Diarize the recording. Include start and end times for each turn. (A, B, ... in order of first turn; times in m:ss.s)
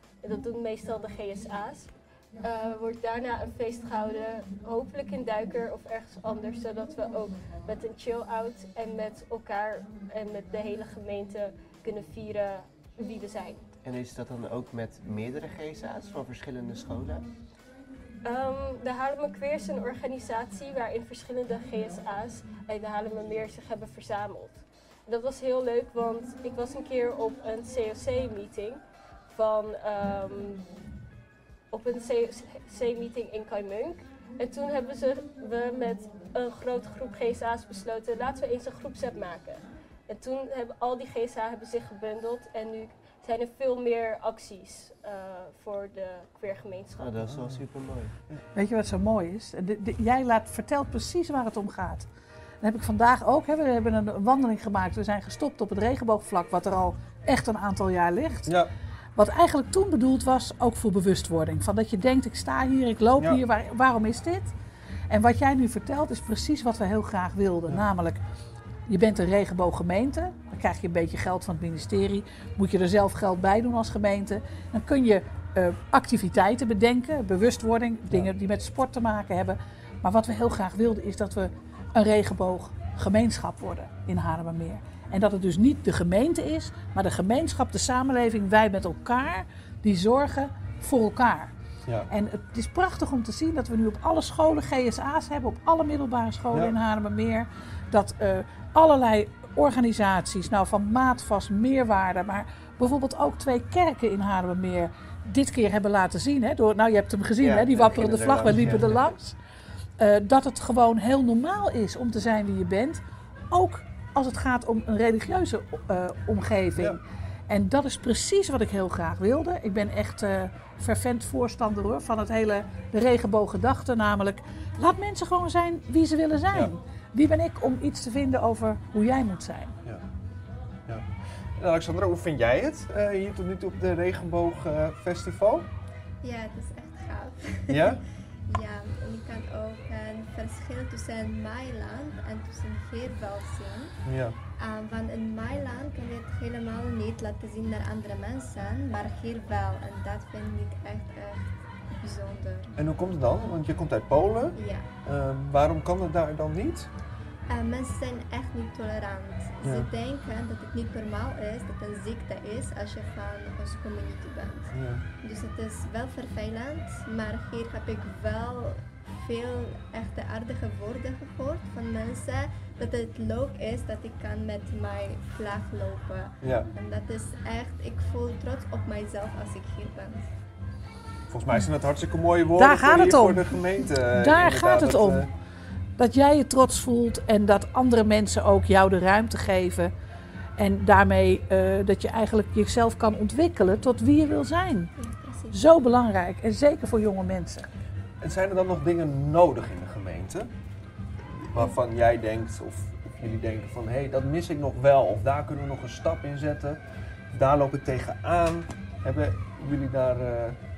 0:00.2-0:01.9 A
0:02.4-0:13.7 A
0:13.8-0:17.2 B
0:18.2-0:30.7 A
0:31.7-0:47.1 A
0:47.0-0:48.1 B
0:47.2-0:47.6 C
0:48.5-0:52.1 D
0:52.6-0:58.6 D
0:59.2-1:04.5 D
1:05.1-1:08.2 D
1:08.9-1:31.5 D
1:32.1-1:49.4 D
1:47.4-1:49.0 B
1:48.5-1:48.9 C
1:50.0-2:09.8 D
2:10.9-2:15.7 C
2:16.2-2:24.0 E
2:17.7-2:18.0 C
2:24.0-2:24.4 C
2:24.6-2:32.7 E
2:32.8-2:36.9 C
2:34.5-2:34.9 E
2:37.5-3:00.2 E
2:39.6-2:39.9 C
2:44.7-2:45.0 C
2:56.4-2:56.7 C
3:01.3-3:05.3 C
3:02.6-3:05.2 D
3:06.0-3:09.9 D
3:10.6-3:14.9 D
3:15.0-3:15.6 E
3:15.5-3:17.7 D
3:18.2-3:20.5 C
3:21.3-3:26.8 C
3:27.3-3:30.6 C